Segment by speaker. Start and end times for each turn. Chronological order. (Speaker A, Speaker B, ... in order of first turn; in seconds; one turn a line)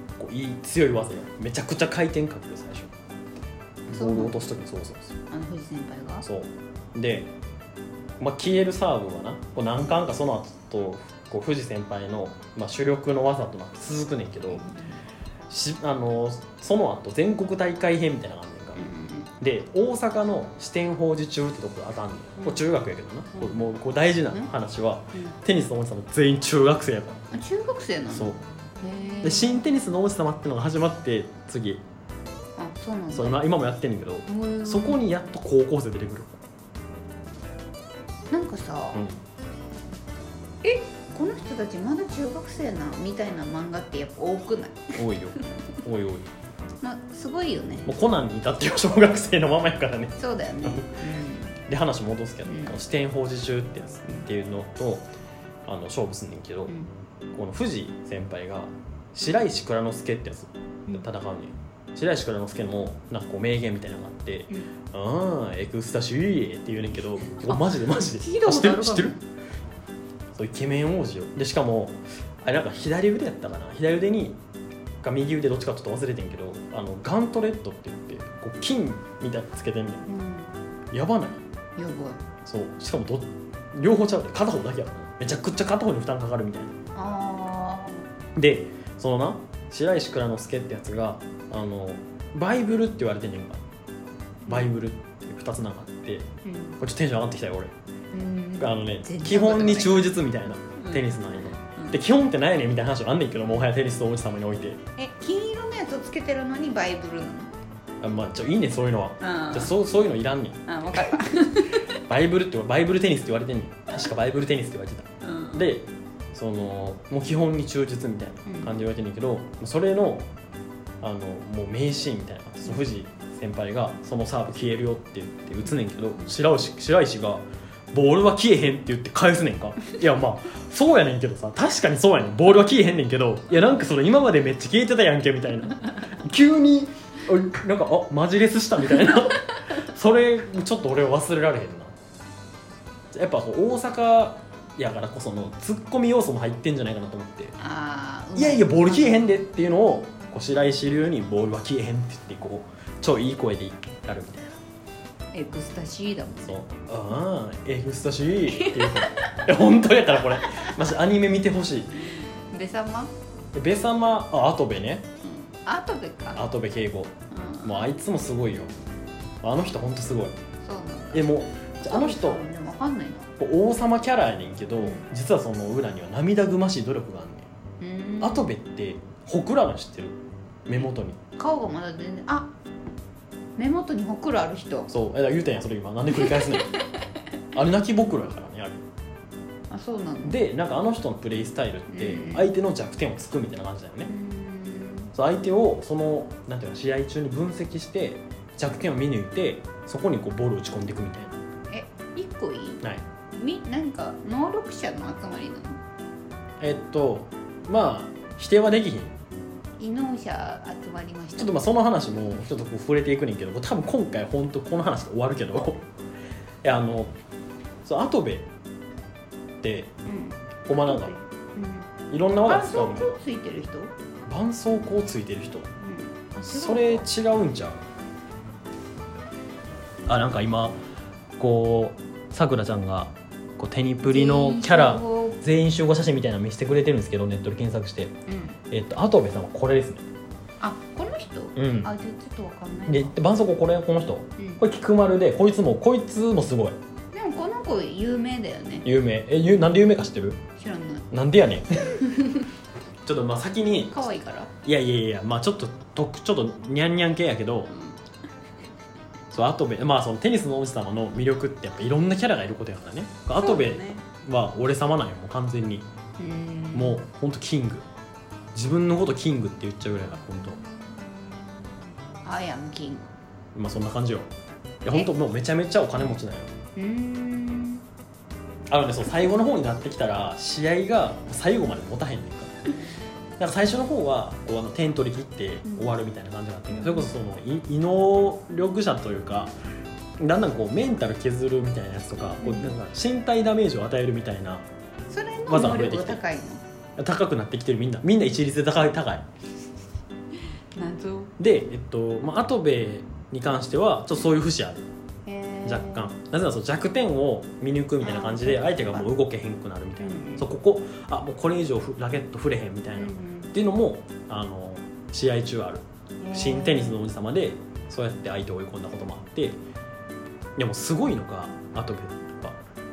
Speaker A: 0.2-2.9
Speaker A: 3.9-5.2
Speaker B: 3.9-4.4
Speaker B: 5.3-6.2
Speaker A: 6.2-7.3
Speaker A: 8.2-14.7
Speaker B: 14.5-15.0
Speaker A: 15.5-18.9
Speaker B: 18.8-19.3
Speaker A: 19.4-27.2
Speaker B: 22.4-22.6
Speaker B: 23.3-23.6
Speaker B: 27.3-29.6
Speaker A: 28.1-28.4
Speaker A: 29.2-31.8
Speaker B: 32.6-33.4
Speaker A: 33.1-36.4
Speaker B: 34.3-35.0
Speaker B: 38.3-39.0
Speaker A: 38.9-39.2
Speaker B: 40.6-45.0
Speaker A: 45.0-46.3
Speaker B: 46.8-47.9
Speaker A: 47.9-50.9
Speaker B: 50.2-51.6
Speaker A: 51.7-55.0
Speaker B: 52.5-52.8
Speaker A: 55.7-56.7
Speaker A: 57.3-69.2
Speaker B: 67.4-69.2
Speaker A: 70.3-74.4
Speaker A: 75.0-80.1
Speaker B: 80.1-80.5
Speaker A: 80.9-81.4
Speaker B: 81.8-82.2
Speaker A: 82.4-86.8
Speaker B: 87.0-88.1
Speaker A: 88.4-93.6
Speaker B: 94.5-94.7
Speaker A: 94.5-96.3
Speaker B: 96.4-96.8
Speaker A: 96.8-97.7
Speaker B: 98.1-100.1
Speaker A: 98.6-104.8
Speaker B: 100.8-101.1
Speaker B: 105.0-107.5
Speaker A: 108.0-111.1
Speaker B: 109.2-109.8
Speaker B: 110.7-111.9
Speaker A: 112.0-120.3
Speaker B: 115.2-115.7
Speaker B: 118.5-118.7
Speaker A: 121.0-141.9
Speaker A: 143.1-147.6
Speaker B: 147.6-149.2
Speaker A: 148.4-154.6
Speaker B: 155.3-156.6
Speaker A: 156.4-162.0
Speaker B: 158.5-159.3
Speaker B: 160.2-160.7
Speaker B: 162.0-163.1
Speaker A: 163.5-165.1
Speaker B: 165.2-166.4
Speaker A: 166.3-168.7
Speaker B: 167.3-167.9
Speaker A: 169.4-170.4
Speaker B: 170.6-173.3
Speaker A: 171.1-172.4
Speaker A: 173.4-177.5
Speaker B: 174.8-175.1
Speaker B: 177.8-178.5
Speaker A: 178.2-181.2
Speaker B: 181.4-182.5
Speaker B: 183.6-184.9
Speaker A: 184.9-186.7
Speaker B: 186.1-186.8
Speaker A: 187.5-188.8
Speaker B: 189.7-190.4
Speaker A: 190.2-194.1
Speaker B: 191.9-192.5
Speaker B: 194.1-195.1
Speaker A: 195.1-201.3
Speaker B: 201.7-202.8
Speaker B: 203.3-205.8
Speaker A: 206.6-209.1
Speaker B: 209.8-211.6
Speaker A: 211.4-215.8
Speaker A: 216.6-217.1
Speaker A: 217.8-218.5
Speaker A: 219.6-219.9
Speaker B: 220.1-221.9
Speaker A: 220.7-221.2
Speaker A: 222.1-223.1
Speaker B: 222.4-223.9
Speaker A: 224.3-225.7
Speaker B: 225.8-227.1
Speaker A: 226.4-227.8
Speaker A: 230.1-230.8
Speaker A: 231.4-238.2
Speaker B: 234.1-235.4
Speaker B: 238.3-238.6
Speaker A: 238.7-240.1
Speaker B: 240.6-243.2
Speaker A: 241.6-241.9
Speaker A: 242.9-246.8
Speaker B: 247.1-248.9
Speaker A: 248.8-250.4
Speaker B: 250.6-251.1
Speaker A: 251.1-252.0
Speaker B: 251.8-252.5
Speaker A: 253.1-254.1
Speaker B: 253.8-254.5
Speaker A: 254.6-257.7
Speaker B: 257.7-258.0
Speaker A: 259.3-265.9
Speaker B: 263.4-264.1
Speaker B: 266.2-267.0
Speaker A: 266.7-267.9
Speaker A: 268.5-270.6
Speaker B: 272.2-273.1
Speaker A: 273.6-274.3
Speaker A: 274.8-276.5
Speaker B: 276.8-277.8
Speaker A: 278.7-282.6
Speaker A: 283.4-289.5
Speaker B: 285.6-285.9
Speaker B: 286.7-287.1
Speaker A: 290.2-294.7
Speaker B: 292.4-292.7
Speaker B: 295.1-296.6
Speaker A: 295.5-296.2
Speaker A: 297.0-299.3
Speaker B: 300.7-301.3
Speaker A: 301.4-304.9
Speaker B: 305.3-306.1
Speaker A: 305.6-319.6
Speaker B: 308.0-309.1
Speaker B: 310.0-310.5
Speaker B: 313.0-313.5
Speaker B: 316.2-317.0
Speaker A: 320.6-322.6